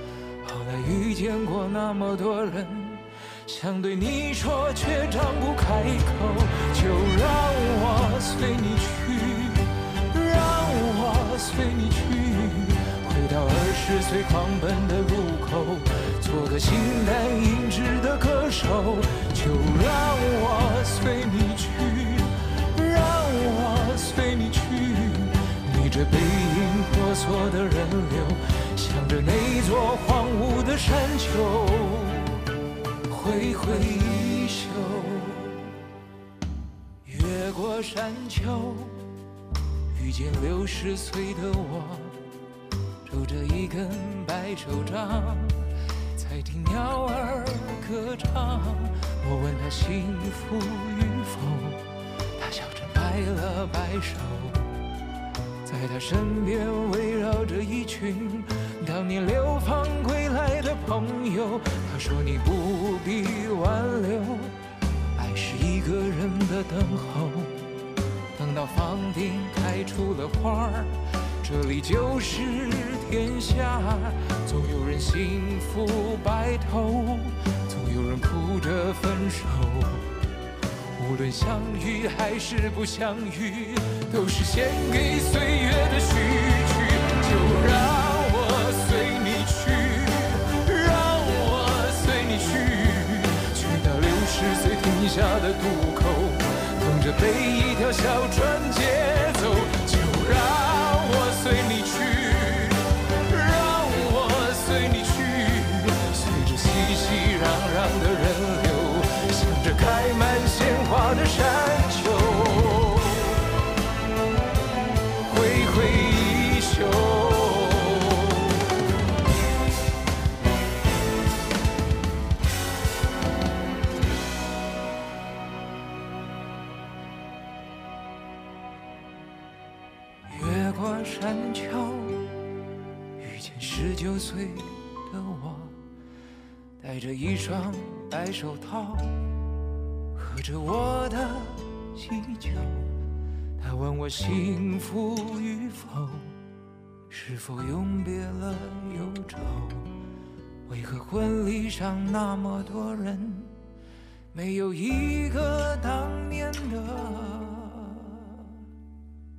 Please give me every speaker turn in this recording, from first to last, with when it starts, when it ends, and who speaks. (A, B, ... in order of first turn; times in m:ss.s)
0:00.4-0:32.4 A
0:33.1-0:35.7 A
0:37.0-0:39.0 A
0:39.9-0:42.2 A
0:43.0-0:51.8 A
0:52.4-0:54.7 A
0:55.6-1:04.5 A
1:05.2-1:07.6 A
1:08.3-1:20.0 A
1:21.0-1:53.4 A
1:55.2-1:58.5 A
2:10.3-2:12.3 A
2:13.2-2:15.8 A
2:16.8-2:19.1 A
2:20.1-2:22.8 A
2:23.6-2:26.3 A
2:27.1-2:29.9 A
2:30.7-2:33.5 A
2:34.3-2:38.4 A